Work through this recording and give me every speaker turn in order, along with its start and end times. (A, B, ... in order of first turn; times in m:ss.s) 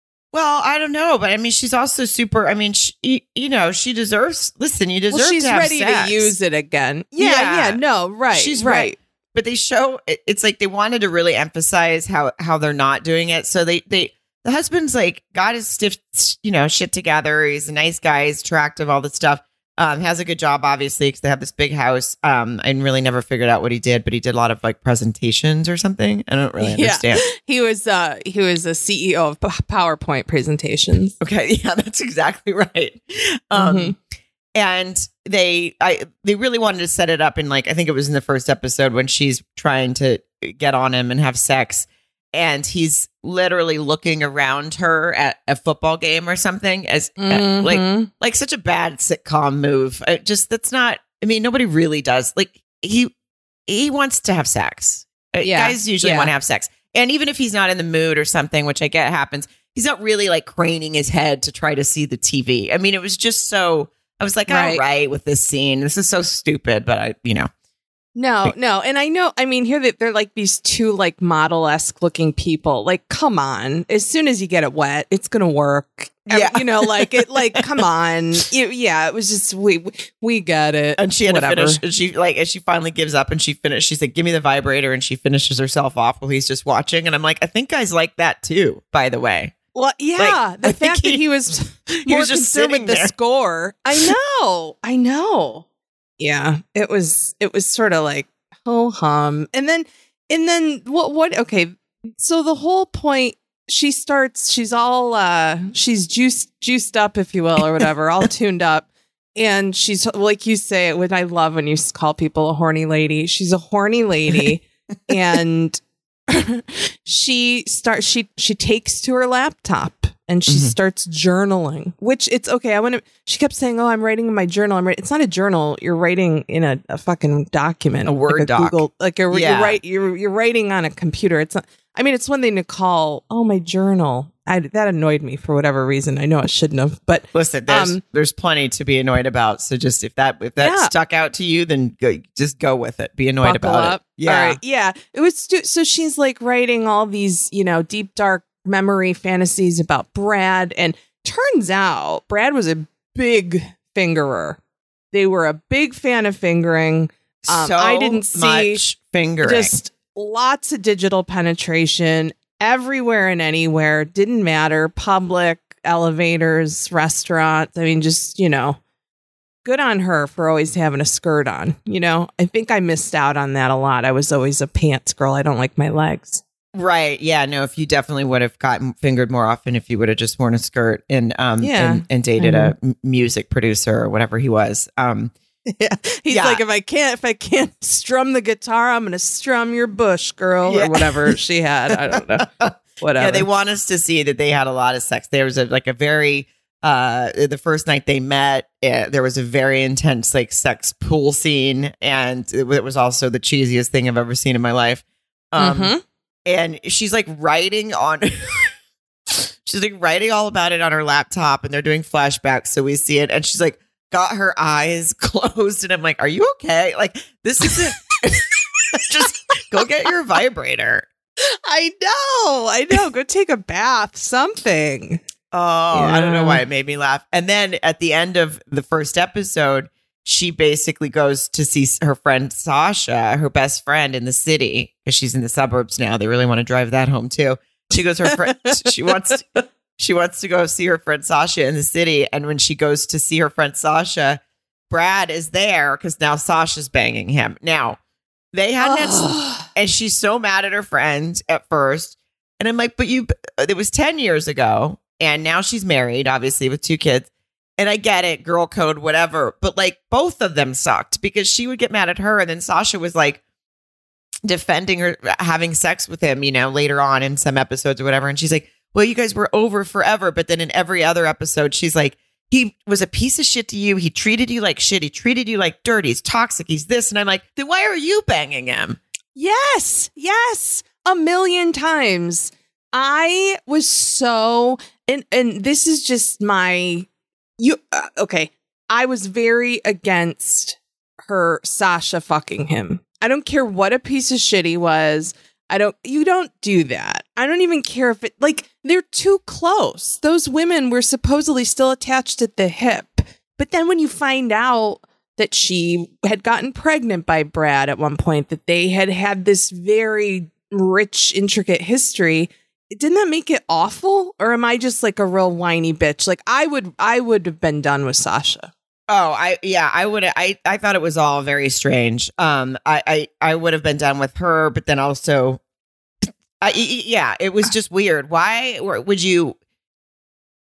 0:00.3-0:06.3 A
0:05.1-0:09.0 B
0:07.2-0:07.8 A
0:08.3-0:27.2 A
0:26.6-0:31.2 B
0:31.2-0:34.0 A
0:33.6-0:34.0 B
0:34.6-0:53.1 A
0:47.2-0:48.1 B
0:53.7-1:07.5 A
0:55.4-0:56.3 B
1:04.5-1:04.8 B
1:08.1-1:21.8 B
1:16.3-1:17.6 A
1:21.0-1:29.6 A
1:29.8-1:35.6 B
1:30.2-1:31.2 A
1:31.9-1:33.1 A
1:36.2-2:18.0 B
2:00.5-2:00.8 A
2:08.0-2:09.8 A
2:17.3-2:24.6 A
2:20.6-2:20.9 B
2:23.4-2:34.6 B
2:35.1-2:38.8 B
2:37.4-2:39.8 A
2:39.4-2:48.8 B
2:49.6-2:56.4 B
2:56.8-3:05.3 A
3:01.6-3:02.7 B
3:05.7-3:12.4 B
3:06.3-3:06.6 A
3:10.7-3:11.4 A
3:11.9-3:25.9 A
3:13.0-3:13.5 B
3:25.6-3:26.0 B
3:26.5-3:28.7 A
3:29.3-3:41.1 A
3:41.4-3:45.2 B
3:45.5-4:04.4 A
3:45.9-3:46.6 B
3:58.4-3:58.9 B
4:04.9-4:08.0 A
4:08.5-4:23.4 A
4:08.8-4:09.7 B
4:24.5-4:39.0 A
4:39.4-4:47.1 B
4:47.6-5:18.7 B
5:19.1-5:25.6 A
5:26.6-5:29.6 A